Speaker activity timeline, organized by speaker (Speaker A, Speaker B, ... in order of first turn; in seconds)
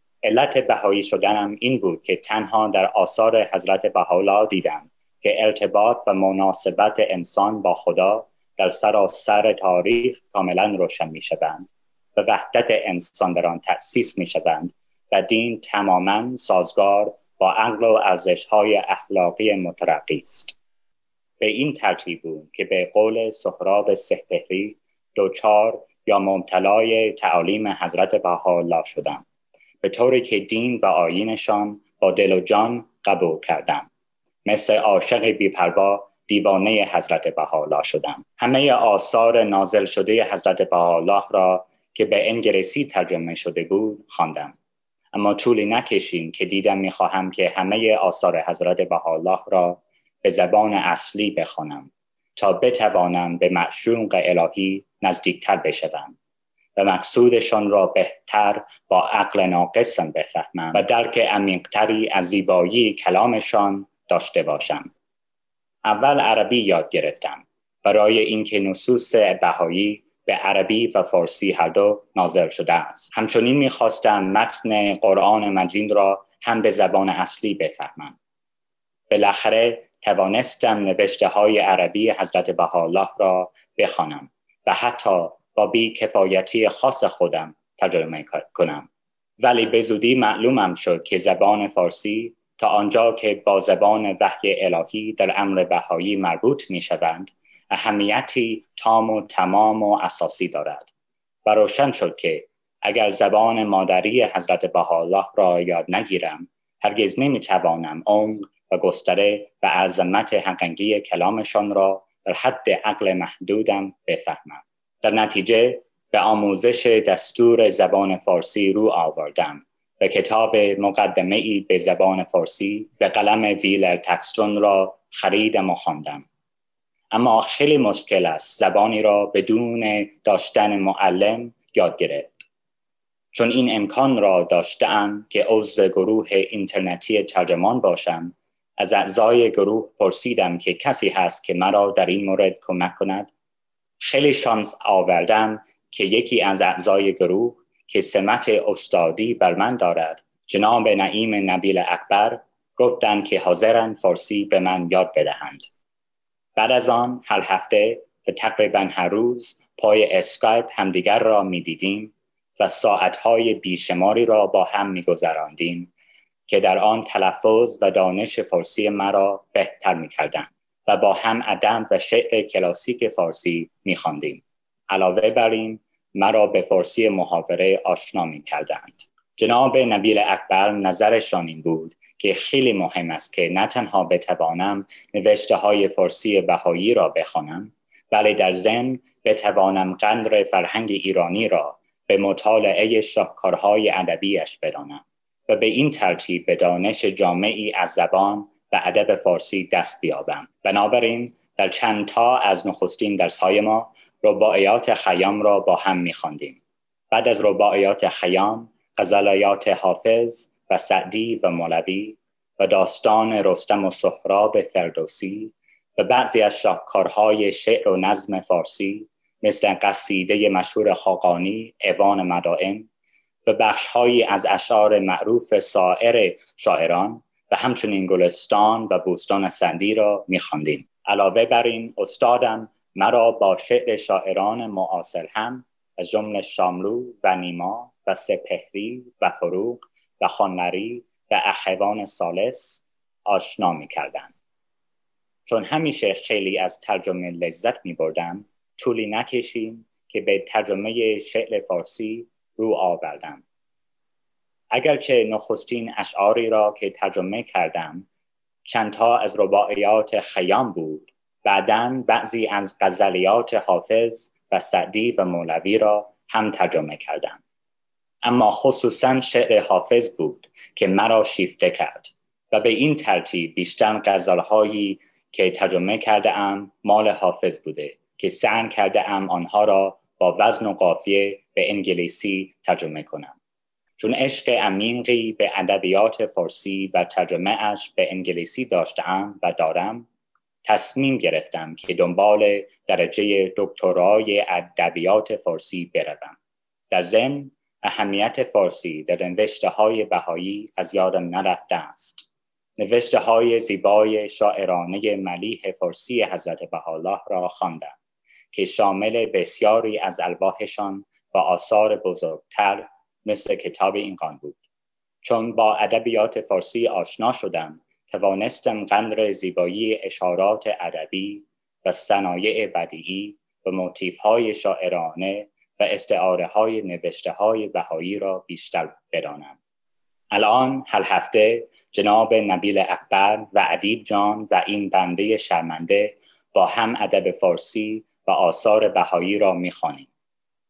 Speaker A: 0.2-20.6, 21.4-29.2, 29.8-33.9, 34.5-44.5, 45.1-56.1, 56.8-64.9, 65.8-78.2, 79.1-88.9, 89.4-100.9, 101.5-126.3, 127.1-132.3, 133.3-143.3, 144.0-155.7, 156.6-165.9, 166.5-206.6, 207.1-222.9, 223.4-244.3, 245.5-253.4, 254.7-258.1, 258.7-267.4, 268.2-283.4, 284.0-290.1, 290.6-296.4, 296.9-308.0, 308.5-314.6, 315.2-329.6, 330.3-340.1